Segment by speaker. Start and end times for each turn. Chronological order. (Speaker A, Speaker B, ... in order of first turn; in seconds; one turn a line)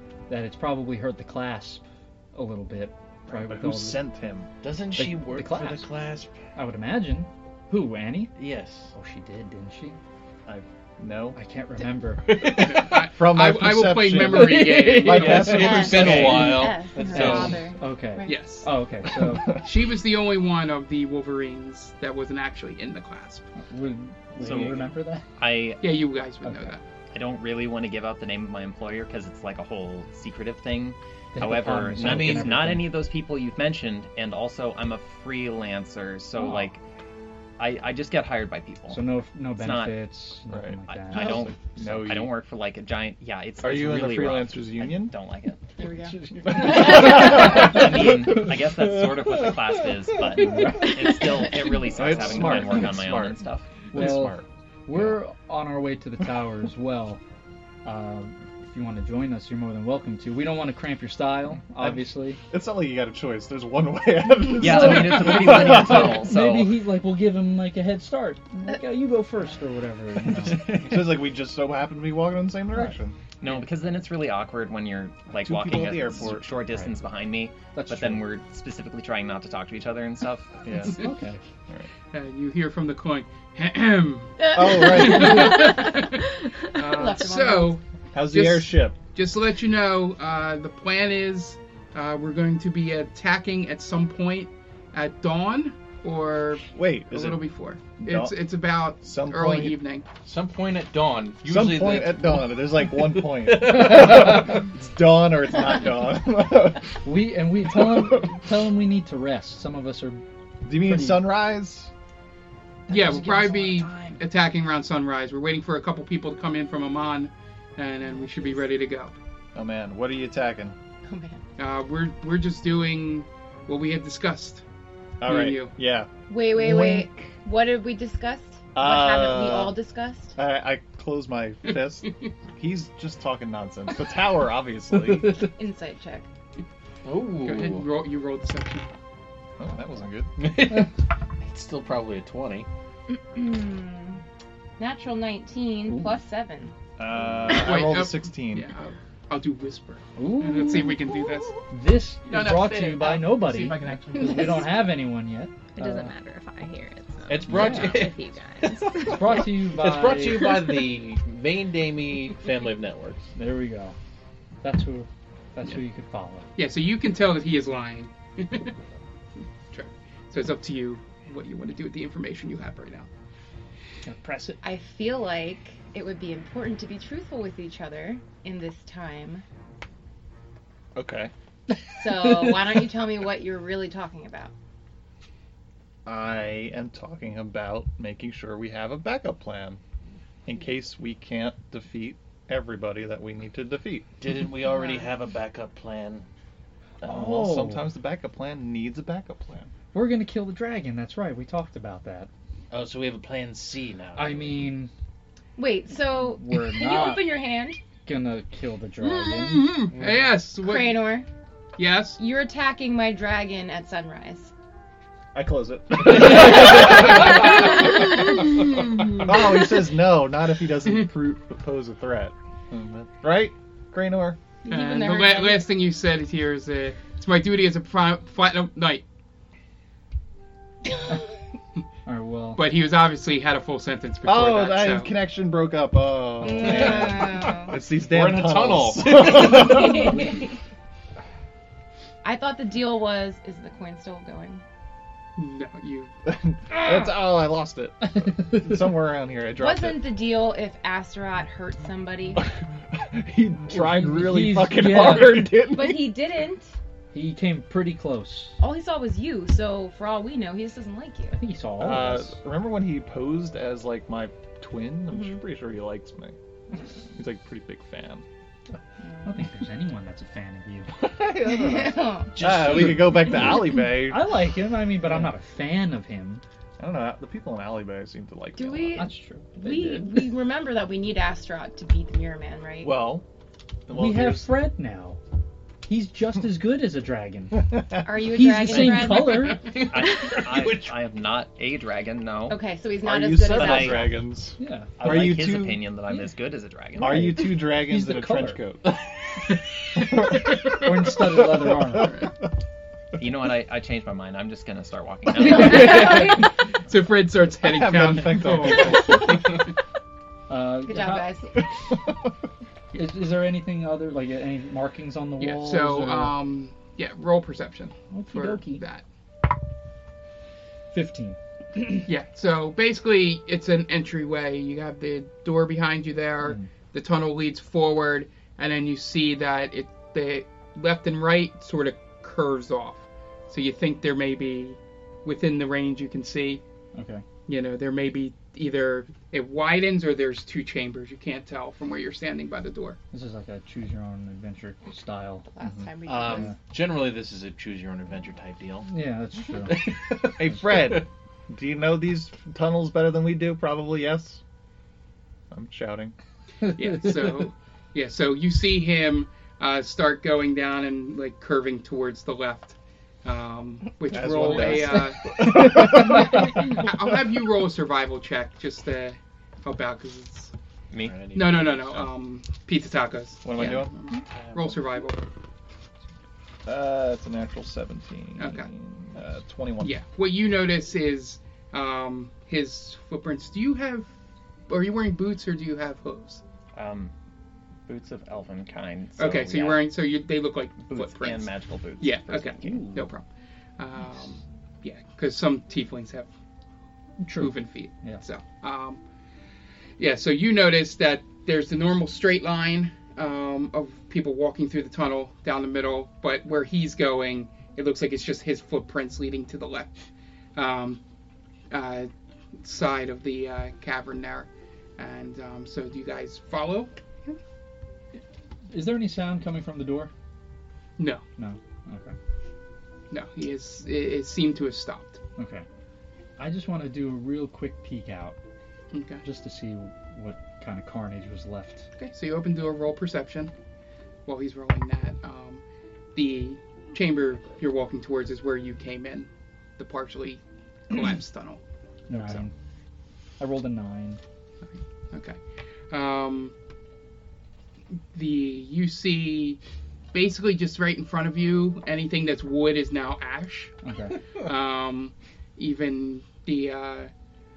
Speaker A: 0.3-4.0
Speaker B: 3.3-4.5
Speaker C: 4.6-6.4
Speaker A: 5.0-5.9
Speaker A: 6.5-8.4
Speaker C: 8.4-8.9
Speaker A: 8.9-10.0
Speaker B: 10.5-11.4
Speaker A: 11.3-12.4
Speaker C: 12.2-13.1
Speaker D: 12.5-15.5
Speaker B: 13.0-16.5
Speaker A: 14.2-19.6
Speaker C: 15.0-17.7
Speaker E: 15.5-18.4
Speaker D: 18.3-18.7
Speaker D: 19.6-23.5
Speaker A: 23.6-25.3
Speaker F: 24.4-24.8
Speaker F: 25.4-25.9
Speaker D: 25.8-26.8
Speaker A: 26.4-26.8
Speaker F: 27.1-36.8
Speaker A: 31.4-32.9
Speaker C: 32.0-32.7
Speaker A: 36.4-36.7
Speaker F: 37.6-39.0
Speaker A: 38.9-41.4
Speaker F: 39.6-40.1
Speaker B: 40.5-42.3
Speaker F: 40.9-45.6
Speaker B: 43.6-45.1
Speaker E: 45.8-46.8
Speaker B: 46.5-47.8
Speaker A: 46.6-47.2
Speaker F: 46.7-53.7
Speaker A: 50.3-51.0
Speaker B: 51.9-53.3
Speaker C: 52.0-53.4
Speaker A: 53.9-54.4
Speaker B: 53.9-54.4
Speaker A: 54.9-57.2
Speaker A: 57.9-62.4
Speaker B: 61.8-66.2
Speaker F: 64.5-66.8
Speaker A: 64.6-71.0
Speaker B: 70.5-73.2
Speaker F: 73.4-80.6
Speaker B: 75.4-76.5
Speaker A: 76.7-77.0
Speaker A: 77.7-78.3
Speaker B: 80.7-81.0
Speaker A: 80.8-81.4
Speaker D: 82.1-100.1
Speaker E: 84.4-86.2
Speaker B: 84.5-85.7
Speaker E: 86.8-87.8
Speaker B: 88.1-89.0
Speaker B: 96.7-97.4
Speaker B: 98.0-98.4
Speaker B: 99.0-99.8
Speaker C: 100.2-104.5
Speaker B: 101.4-106.9
Speaker A: 107.0-110.2
Speaker B: 107.9-108.2
Speaker B: 110.6-111.9
Speaker A: 110.8-111.3
Speaker C: 112.9-113.7
Speaker D: 112.9-119.2
Speaker E: 118.1-118.6
Speaker B: 119.5-120.8
Speaker E: 121.1-121.4
Speaker D: 121.6-124.6
Speaker B: 125.2-127.3
Speaker D: 125.2-125.7
Speaker E: 126.3-130.4
Speaker B: 128.8-129.8
Speaker B: 130.4-135.4
Speaker D: 131.7-132.3
Speaker E: 135.5-136.3
Speaker C: 137.1-137.9
Speaker D: 137.4-138.9
Speaker B: 139.6-140.5
Speaker C: 140.4-142.7
Speaker E: 143.3-144.2
Speaker E: 144.8-146.7
Speaker A: 145.9-146.2
Speaker B: 147.0-148.7
Speaker D: 147.5-151.6
Speaker A: 150.2-151.0
Speaker A: 151.7-156.2
Speaker D: 152.3-154.7
Speaker G: 155.8-159.4
Speaker C: 157.3-163.3
Speaker A: 157.5-158.1
Speaker A: 159.0-160.6
Speaker A: 163.4-164.0
Speaker A: 164.6-166.5
Speaker D: 166.6-168.8
Speaker D: 169.7-173.1
Speaker A: 174.1-174.6
Speaker E: 174.6-179.4
Speaker B: 180.9-181.3
Speaker E: 181.9-184.5
Speaker B: 186.1-189.8
Speaker B: 190.5-194.1
Speaker C: 194.2-196.3
Speaker E: 194.7-195.1
Speaker A: 197.0-197.8
Speaker B: 197.0-199.7
Speaker A: 199.9-202.3
Speaker C: 202.7-204.7
Speaker A: 204.2-204.9
Speaker E: 205.6-207.8
Speaker A: 206.1-207.3
Speaker A: 208.1-209.8
Speaker D: 209.0-211.2
Speaker E: 210.6-211.3
Speaker D: 211.8-212.2
Speaker E: 212.2-214.5
Speaker B: 215.3-218.2
Speaker E: 216.9-217.4
Speaker B: 219.0-224.4
Speaker E: 224.6-225.7
Speaker D: 224.7-229.0
Speaker A: 232.1-232.6
Speaker D: 232.6-235.1
Speaker B: 234.2-240.3
Speaker E: 236.4-237.8
Speaker C: 236.6-239.9
Speaker E: 239.4-240.4
Speaker E: 242.2-244.6
Speaker D: 245.4-246.1
Speaker B: 246.2-250.1
Speaker A: 248.2-248.7
Speaker E: 249.6-252.4
Speaker B: 252.4-256.2
Speaker A: 253.7-255.6
Speaker E: 255.7-256.7
Speaker A: 257.1-258.6
Speaker E: 258.6-261.4
Speaker A: 261.3-262.4
Speaker B: 261.8-266.4
Speaker B: 267.1-268.2
Speaker A: 269.2-270.9
Speaker B: 271.0-274.3
Speaker E: 271.5-272.3
Speaker C: 272.4-273.6
Speaker A: 273.9-276.4
Speaker B: 275.1-275.3
Speaker B: 276.8-279.1
Speaker E: 278.6-283.1
Speaker A: 279.0-280.2
Speaker B: 282.8-283.2
Speaker B: 283.9-284.5
Speaker A: 283.9-285.2
Speaker A: 285.9-289.6
Speaker B: 287.6-288.1
Speaker E: 288.0-289.7
Speaker C: 289.6-291.0
Speaker F: 289.8-292.6
Speaker E: 292.5-294.2
Speaker B: 293.0-295.9
Speaker F: 293.5-294.1
Speaker A: 294.6-295.4
Speaker F: 295.0-297.3
Speaker A: 296.1-296.3
Speaker A: 297.0-298.6
Speaker B: 297.0-298.9
Speaker B: 300.0-302.3
Speaker A: 300.7-302.2
Speaker F: 303.2-306.2
Speaker D: 305.4-309.6
Speaker B: 307.6-309.5
Speaker A: 310.5-311.4
Speaker E: 310.9-311.6
Speaker A: 312.9-316.4
Speaker D: 315.4-319.0
Speaker A: 318.1-318.8
Speaker A: 320.9-322.1
Speaker D: 322.1-336.6
Speaker A: 326.4-326.7
Speaker A: 336.9-337.2
Speaker D: 337.5-343.0
Speaker A: 343.1-346.6
Speaker E: 345.5-346.6
Speaker C: 346.1-348.9
Speaker A: 348.9-350.3
Speaker C: 349.7-351.0
Speaker B: 350.4-354.4
Speaker B: 355.5-356.1
Speaker A: 356.6-357.1
Speaker D: 356.8-370.5
Speaker B: 364.1-366.9
Speaker A: 365.5-366.6
Speaker F: 370.9-371.2
Speaker C: 371.0-372.1
Speaker D: 371.3-375.2
Speaker B: 373.4-373.9
Speaker C: 374.3-374.9
Speaker B: 376.6-380.0
Speaker D: 378.4-378.7
Speaker D: 379.8-384.1
Speaker D: 384.7-386.4
Speaker F: 386.8-387.1
Speaker F: 387.9-389.9
Speaker D: 389.2-393.2
Speaker F: 390.9-392.9
Speaker A: 392.6-393.0
Speaker D: 393.8-396.3
Speaker A: 397.2-398.2
Speaker D: 397.4-399.0
Speaker D: 400.0-410.1
Speaker D: 410.6-411.0
Speaker D: 411.7-412.1
Speaker D: 412.6-417.4
Speaker A: 418.7-420.1
Speaker D: 421.0-421.2
Speaker A: 421.4-422.1
Speaker D: 423.1-425.2
Speaker A: 425.4-425.7
Speaker A: 426.4-428.4
Speaker D: 428.9-429.2
Speaker A: 429.2-431.9
Speaker D: 432.0-433.5
Speaker D: 434.3-435.6
Speaker D: 436.2-441.6
Speaker A: 442.1-442.5
Speaker D: 442.2-442.4
Speaker A: 443.4-444.2
Speaker D: 445.1-445.4
Speaker D: 445.9-446.5
Speaker D: 448.1-449.6
Speaker D: 450.1-453.8
Speaker A: 453.8-454.2
Speaker D: 454.4-457.1